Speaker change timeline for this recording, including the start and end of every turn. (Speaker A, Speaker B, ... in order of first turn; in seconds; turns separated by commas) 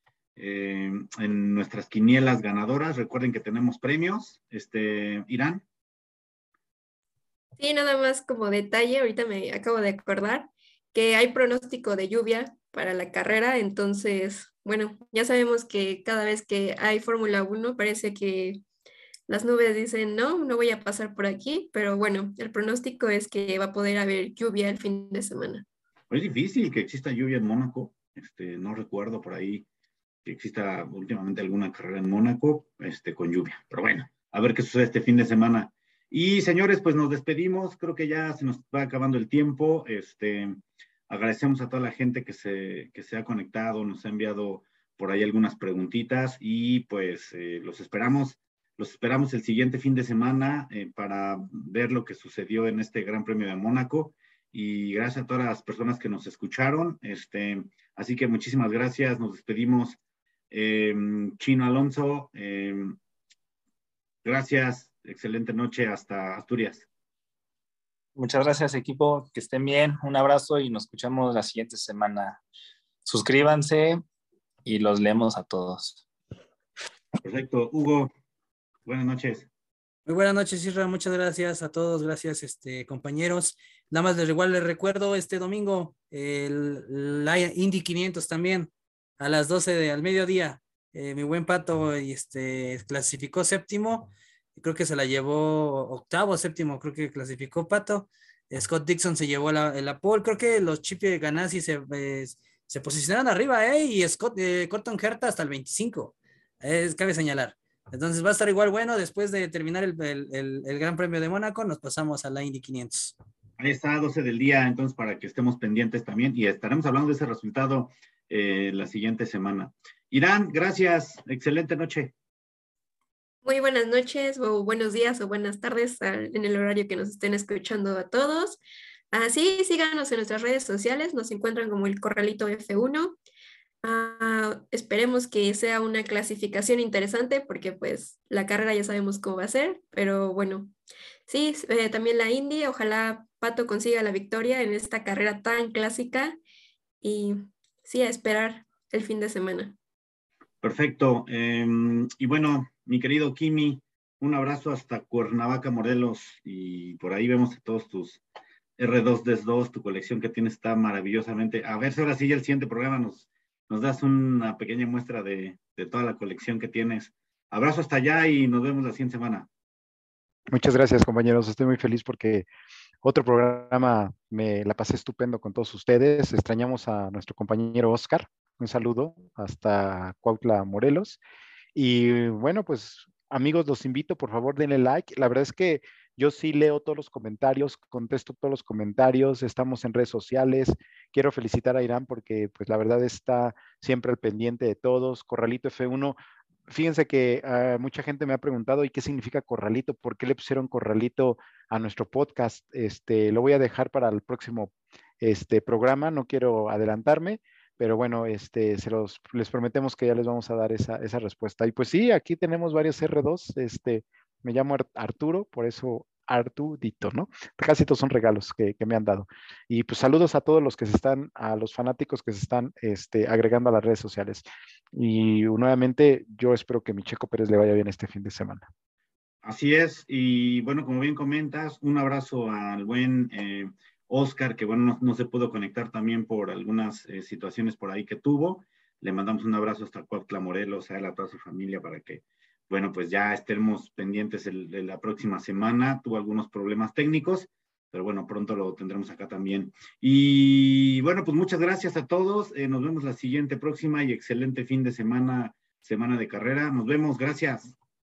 Speaker A: 0.4-5.6, Speaker B: 7.6-18.6, Speaker B: 19.3-25.6, Speaker A: 26.1-29.6, Speaker A: 30.2-60.0, Speaker A: 60.5-63.0, Speaker A: 64.2-66.9, Speaker C: 68.2-72.4, Speaker C: 73.0-74.0, Speaker C: 74.6-76.0, Speaker A: 77.2-78.1, Speaker A: 78.8-79.5, Speaker D: 80.0-113.2, Speaker A: 113.6-122.1, Speaker B: 123.4-128.6, Speaker B: 129.1-133.2, Speaker B: 133.8-140.7, Speaker B: 141.3-146.4, Speaker B: 147.0-149.8, Speaker A: 150.6-158.2, Speaker A: 158.8-169.5, Speaker E: 170.5-172.4, Speaker E: 173.0-181.2, Speaker E: 181.7-196.2, Speaker E: 196.7-228.7, Speaker A: 229.4-257.8